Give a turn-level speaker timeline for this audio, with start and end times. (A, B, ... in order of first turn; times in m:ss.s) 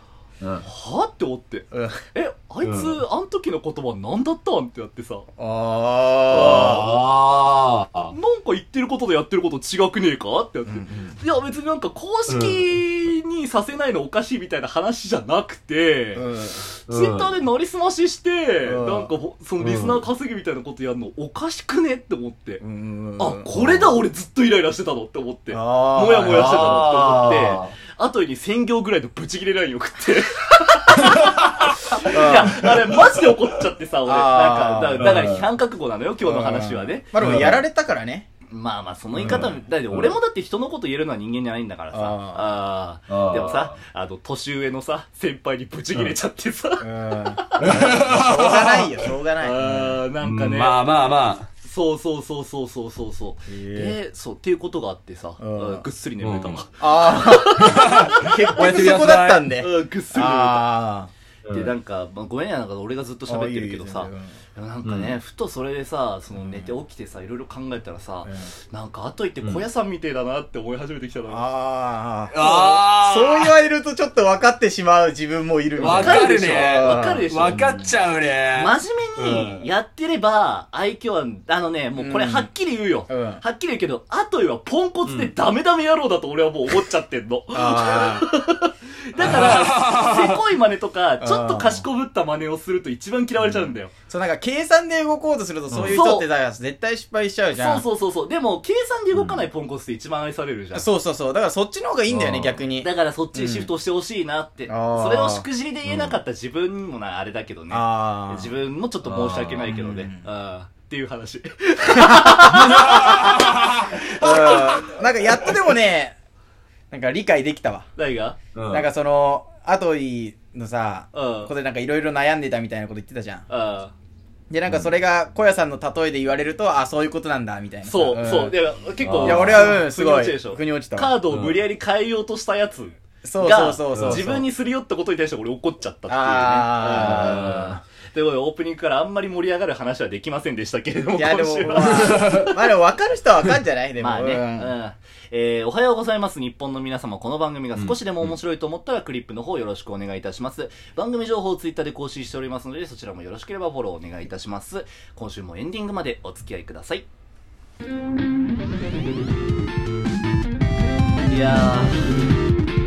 0:00.4-0:00.6 A
0:00.6-0:05.3 B
0:01.7-0:02.0 C
0:02.6-0:02.9 A
0:05.4-0:06.9 C
0:06.3-0:07.0 B
0:06.3-0:08.1 A
0:08.1-0:22.6 B
0:10.7-0:11.2 C
0:12.3-0:12.6 A
0:16.1-0:16.6 C
0:16.9-0:17.3 A
0:18.6-0:19.1 C
0:19.6-0:20.0 A
0:22.6-0:23.9 C
0:23.2-0:37.5 B
0:25.5-0:26.9 C
0:26.3-0:27.7 A
0:31.0-0:31.7 A
0:32.0-0:32.7 C
0:34.1-0:35.2 C
0:35.0-0:35.4 A
0:36.2-0:38.3 C
0:37.1-0:37.6 A
0:38.5-0:47.8 B
0:39.2-0:40.2 A
0:39.2-0:39.6 C
0:41.9-0:42.5 C
0:43.1-0:43.7 A
0:46.8-0:50.0 C
0:47.6-0:49.0 A
0:49.4-0:50.8 B
0:50.2-0:51.5 A
0:51.6-1:00.7 B
0:53.5-0:54.0 C
0:55.4-0:55.8 C
0:56.2-0:56.6 A
0:56.8-1:01.1 C
0:57.6-0:59.5 A
1:01.4-1:01.7 A
1:01.5-1:11.4 B
1:03.3-1:04.3 C
1:04.8-1:05.2 A
1:06.3-1:06.8 C
1:08.2-1:08.5 C
1:11.3-1:17.9 C
1:12.3-1:13.6 A
1:15.8-1:19.7 A
1:15.8-1:17.8 B
1:18.5-1:33.9 B
1:22.0-1:22.5 C
1:23.1-1:23.4 C
1:25.1-1:25.3 A
1:27.5-1:28.3 C
1:29.2-1:30.4 A
1:31.2-1:31.8 C
1:33.4-1:37.8 C
1:35.7-1:36.0 A
1:35.9-1:36.3 B
1:37.6-1:40.9 B
1:39.1-1:39.4 A
1:40.7-1:43.7 C
1:42.1-1:42.6 A
1:42.8-1:55.0 B
1:44.7-1:45.4 C
1:45.9-1:46.2 A
1:47.7-1:48.5 C
1:49.0-1:49.7 A
1:49.6-1:50.2 C
1:51.9-1:53.3 C
1:52.6-1:54.9 A
1:54.0-1:56.1 C
1:56.9-1:57.9 C
1:58.0-1:58.4 B
1:58.5-1:58.9 A
1:58.7-2:03.5 C
2:01.1-2:01.5 B
2:03.5-2:03.9 B
2:04.5-2:08.6 C
2:07.8-2:22.6 B
2:09.0-2:09.8 A
2:09.2-2:11.1 C
2:11.3-2:11.5 A
2:13.2-2:14.5 C
2:13.9-2:14.2 A
2:16.1-2:17.7 C
2:16.9-2:17.8 A
2:21.1-2:24.7 C
2:24.0-2:37.1 B
2:27.8-2:28.4 A
2:41.3-2:42.1 B